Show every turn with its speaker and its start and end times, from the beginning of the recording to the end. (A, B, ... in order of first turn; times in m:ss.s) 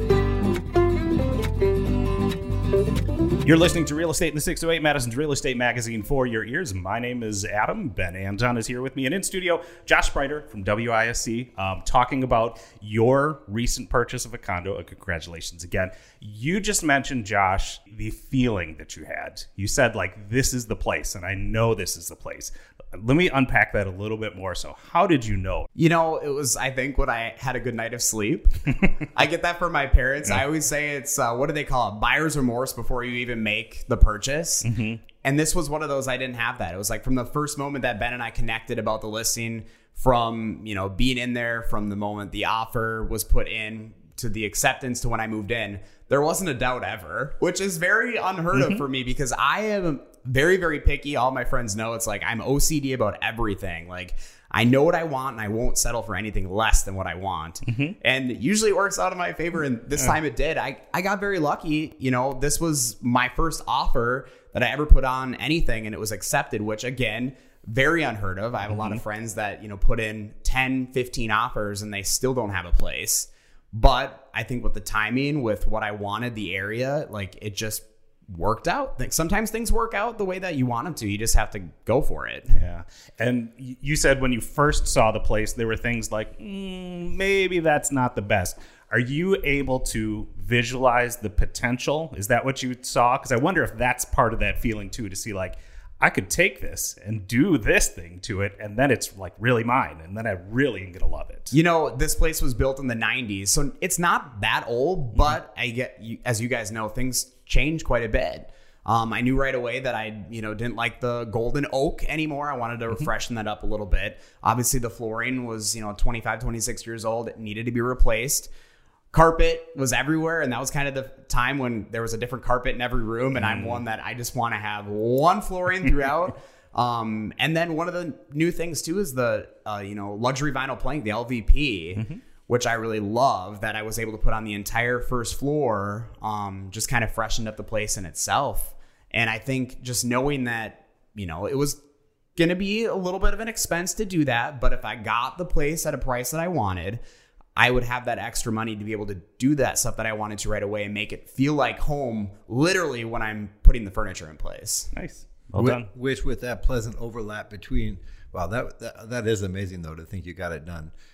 0:03.4-0:25.7 A
0:25.8-0:34.7 B
0:34.6-0:35.0 A
0:35.2-1:22.5 B
0:48.5-0:48.8 A
0:57.7-0:58.0 A
1:08.7-1:09.0 A
1:22.5-1:41.5 A
1:41.5-1:58.5 B
1:59.1-2:21.8 B
2:03.3-2:03.8 A
2:12.0-2:12.2 A
2:22.4-2:27.0 B
2:27.6-2:34.9 B
2:34.9-2:35.9 A
2:35.6-2:40.9 C